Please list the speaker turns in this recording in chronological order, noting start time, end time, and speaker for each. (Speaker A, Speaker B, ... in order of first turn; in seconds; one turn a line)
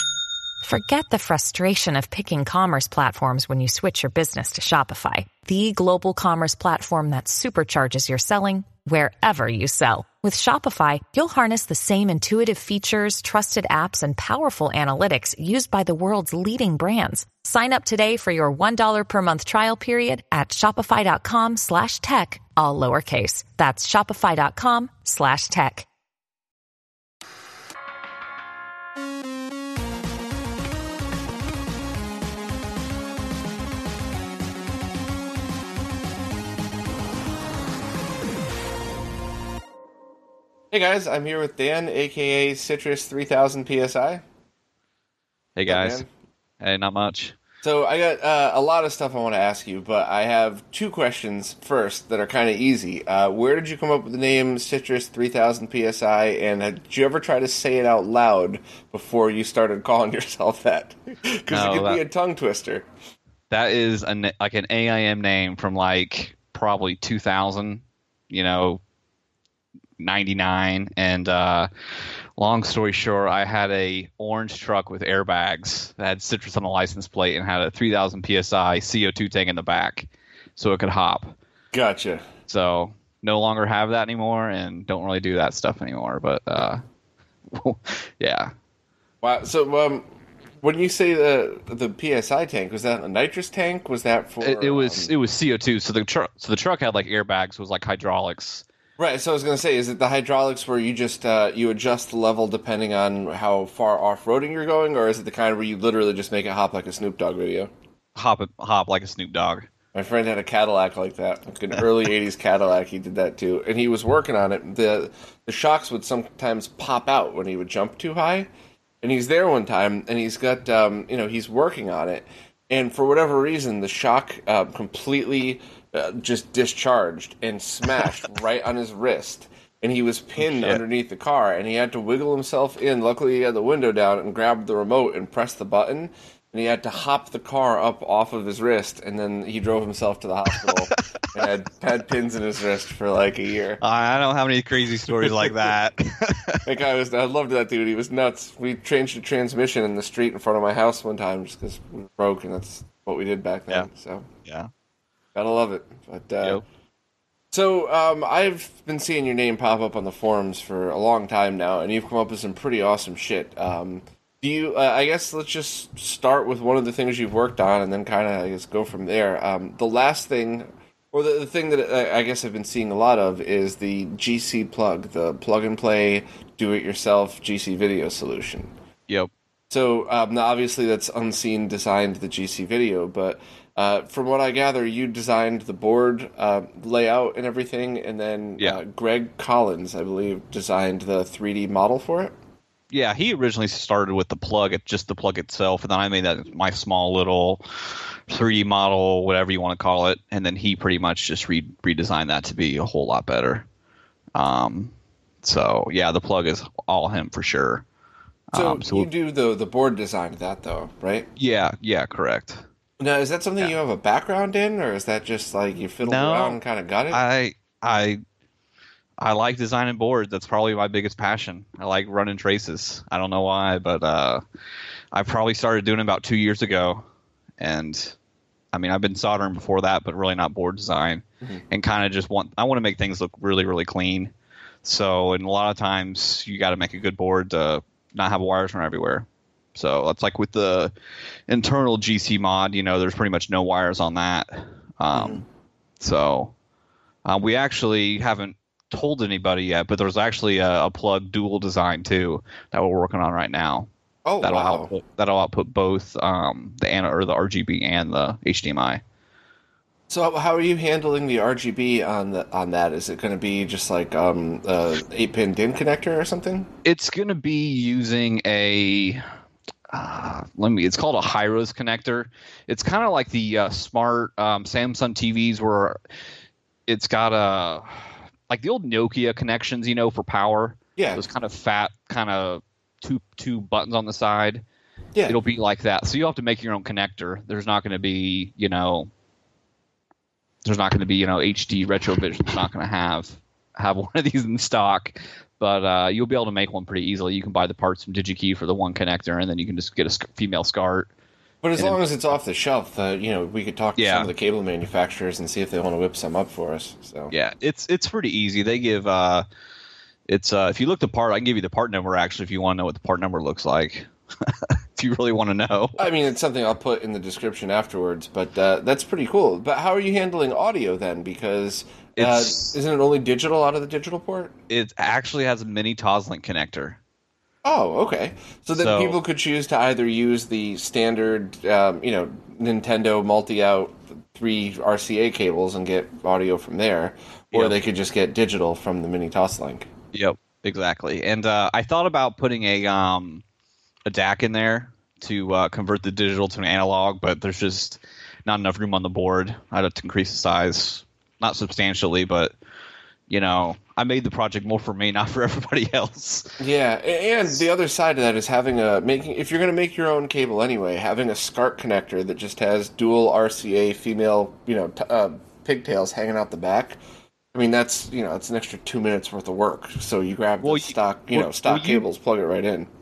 Speaker A: 0.6-25.9
Speaker B: 40.7-44.2
Speaker C: 45.5-46.0
Speaker B: 45.7-46.1
Speaker C: 46.6-47.4
Speaker B: 47.6-62.9
Speaker C: 61.5-62.0
Speaker C: 63.5-68.8
Speaker C: 70.0-71.7
Speaker C: 72.4-81.3
Speaker B: 81.7-82.2
Speaker C: 82.5-86.8
Speaker C: 87.5-88.5
Speaker B: 89.2-90.0
Speaker B: 90.6-95.1
Speaker C: 94.4-98.6
Speaker B: 99.0-107.7
Speaker C: 108.1-109.7
Speaker B: 109.9-118.5
Speaker B: 119.0-143.8
Speaker C: 130.4-130.8
Speaker C: 143.8-146.7
Speaker B: 146.7-154.3
Speaker C: 154.4-154.7
Speaker B: 155.3-156.6
Speaker B: 157.5-178.7
Speaker B: 179.7-192.3
Speaker C: 192.9-203.7
Speaker C: 204.3-207.8
Speaker C: 208.5-209.1
Speaker B: 208.5-211.3
Speaker C: 211.4-212.6
Speaker B: 213.0-217.2
Speaker C: 216.0-216.6
Speaker C: 217.1-218.2
Speaker C: 219.2-224.4
Speaker C: 225.1-227.1
Speaker C: 227.6-228.2
Speaker C: 228.7-234.3
Speaker C: 234.8-240.9
Speaker C: 241.5-245.4
Speaker B: 245.1-245.4
Speaker C: 246.0-246.5
Speaker C: 247.2-253.9
Speaker B: 254.3-254.9
Speaker C: 254.4-259.0
Speaker B: 260.1-266.7
Speaker C: 266.8-269.2
Speaker C: 269.9-276.0
Speaker C: 276.9-284.6
Speaker B: 281.0-281.2
Speaker C: 285.3-289.1
Speaker C: 290.6-301.1
Speaker B: 301.6-307.3
Speaker C: 304.0-304.3
Speaker C: 307.3-309.4
Speaker C: 310.3-316.1
Speaker B: 316.0-324.5
Speaker C: 322.2-322.8
Speaker C: 324.7-327.0
Speaker B: 327.6-339.9
Speaker C: 328.8-329.2
Speaker C: 340.1-343.4
Speaker C: 344.1-352.5
Speaker C: 353.3-356.6
Speaker B: 356.6-367.0
Speaker B: 367.5-372.9
Speaker C: 370.6-372.1